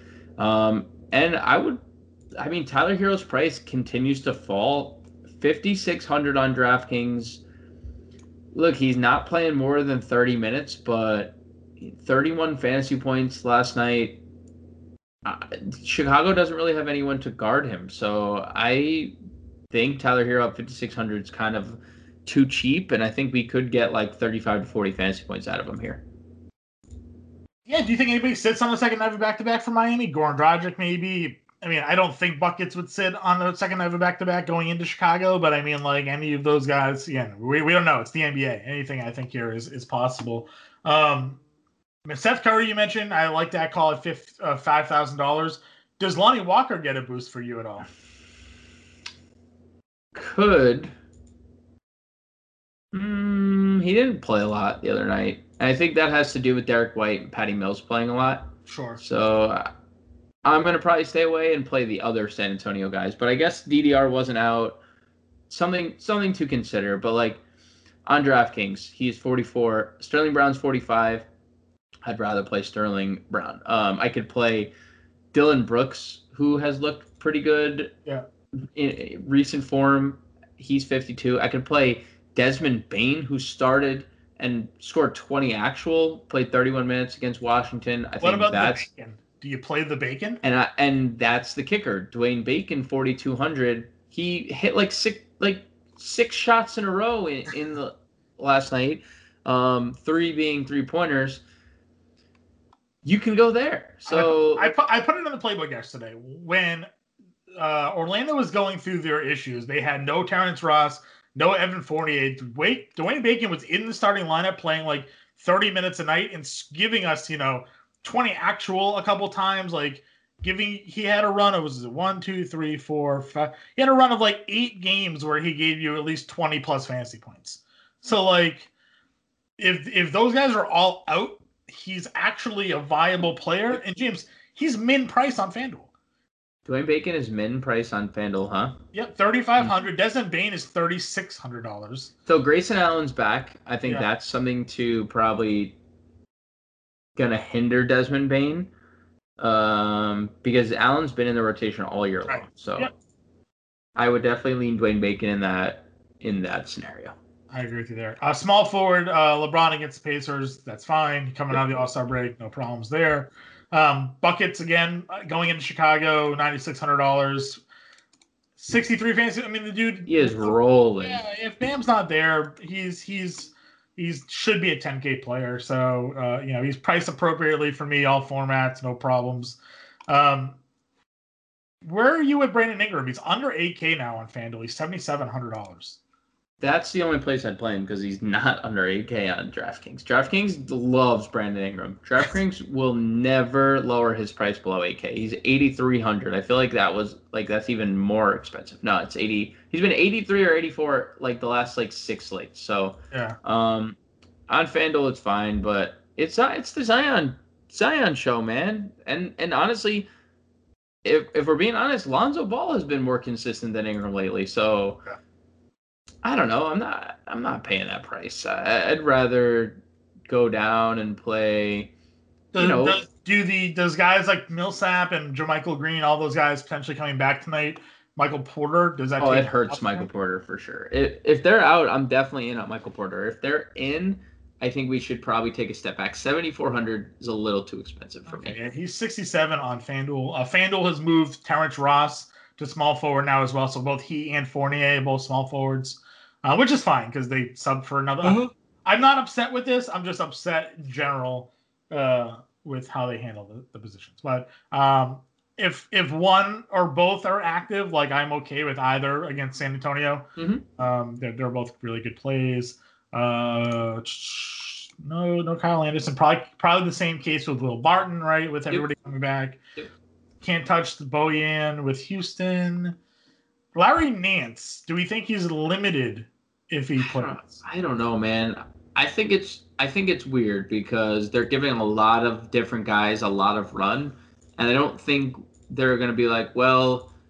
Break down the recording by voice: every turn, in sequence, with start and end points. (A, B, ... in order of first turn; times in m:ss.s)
0:00.4-0:01.8 A
0:02.4-0:07.4 A
0:08.5-0:14.2 A
0:15.2-0:19.1 A
0:19.7-0:26.0 A
0:27.6-0:41.4 B
0:42.0-0:47.9 B
0:50.1-0:50.9 A
0:52.9-0:59.7 A
0:58.6-0:59.0 B
1:00.4-1:04.8 A
1:05.5-1:07.4 A
1:08.0-1:11.2 A
1:12.0-1:14.7 A
1:15.3-1:17.9 A
1:18.5-1:28.8 A
1:28.2-1:30.4 B
1:30.4-1:41.4 A
1:43.0-1:44.7 A
1:44.0-1:46.9 B
1:47.5-2:08.7 B
2:09.6-2:15.9 B
2:16.6-2:18.8 A
2:18.9-2:22.1 B
2:22.3-2:25.8 A
2:27.2-2:28.7 A
2:29.4-2:32.9 A
2:32.3-2:32.9 B
2:34.0-2:37.1 A
2:37.5-2:47.6 B
2:48.6-2:59.6 B
2:50.0-2:51.2 A
3:00.1-3:00.6 B
3:01.8-3:06.0 B
3:06.6-3:24.0 A
3:23.1-3:23.4 B
3:24.5-3:30.1 A
3:31.0-3:35.0 A
3:36.2-3:41.9 A
3:42.5-3:50.1 B
3:42.6-3:43.0 A
3:49.2-3:58.6 A
3:58.3-4:29.6 B
4:08.2-4:08.5 A
4:20.4-4:20.6 A
4:30.4-4:33.0 B
4:33.7-4:37.4 B
4:37.0-4:47.1 A